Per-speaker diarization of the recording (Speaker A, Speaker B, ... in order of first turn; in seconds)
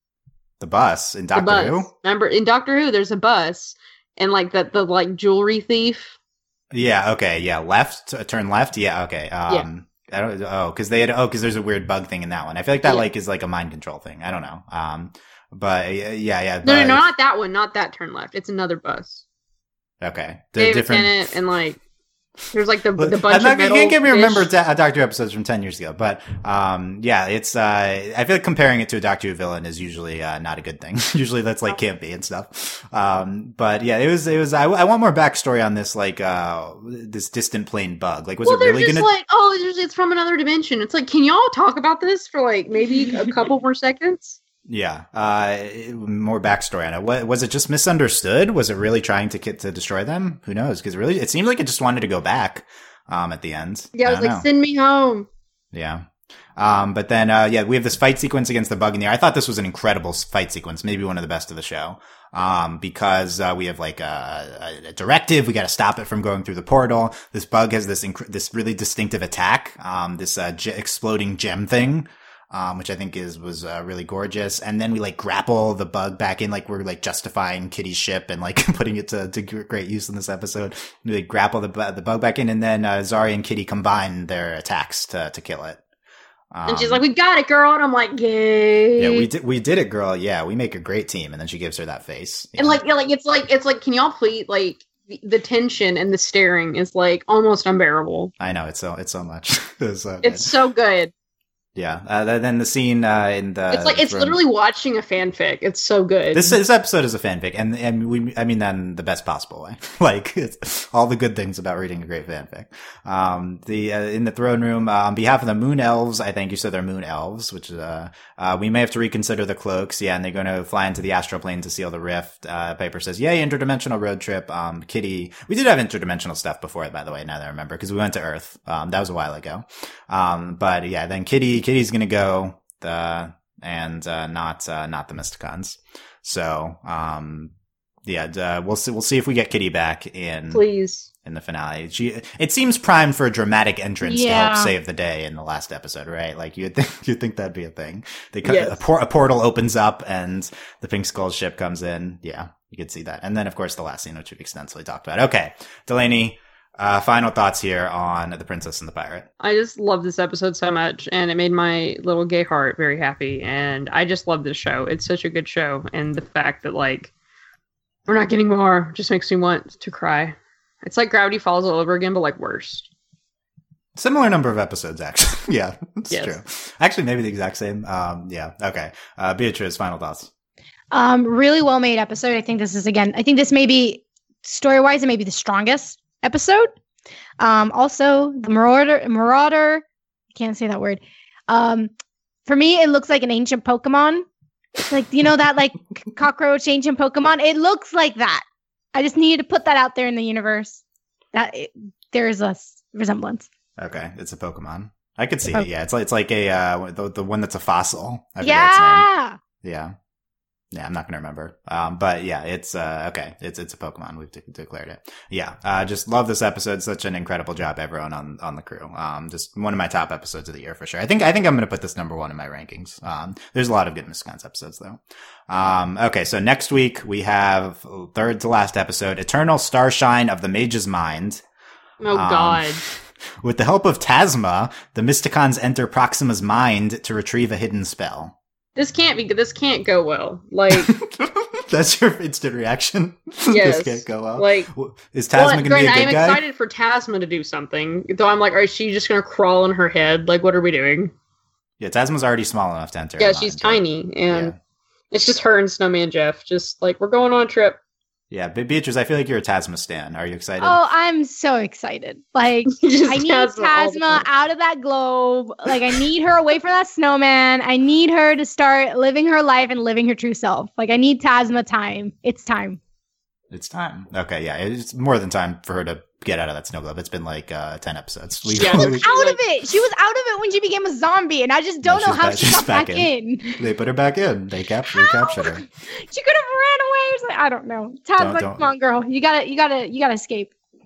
Speaker A: 0.6-1.9, 6.7-17.1, 20.0-21.3, 22.9-39.1, 44.7-54.4, 55.7-56.0, 56.6-85.8, 86.5-87.0, 89.0-92.8, 98.4-100.5, 101.8-104.4, 106.3-137.5, 138.0-140.6, 141.2-159.3, 173.9-180.3, 203.8-209.1, 209.6-209.9, 210.7-231.4, 232.1-238.3, 240.7-246.4, 251.8-254.6, 258.3-260.8, 273.5-279.1, 281.8-285.6, 288.2-288.7
Speaker B: 1.3-6.2, 16.6-19.2, 20.6-21.8, 22.5-24.5, 38.4-44.4, 53.9-55.3, 86.7-89.3, 92.6-98.3, 100.2-101.1, 103.7-106.6, 140.5-141.1, 148.4-148.8, 159.4-167.1, 168.1-172.9, 176.1-176.4, 232.0-232.8, 238.8-240.9, 243.5-244.7, 245.3-251.1, 253.2-254.5, 255.1-257.8, 262.7-264.2, 278.5-279.4
Speaker C: 144.0-144.7, 180.9-186.7, 187.4-191.9, 192.4-194.2, 194.8-200.8, 201.3-203.5, 208.4-209.4, 260.6-272.8, 278.6-283.6, 284.9-290.5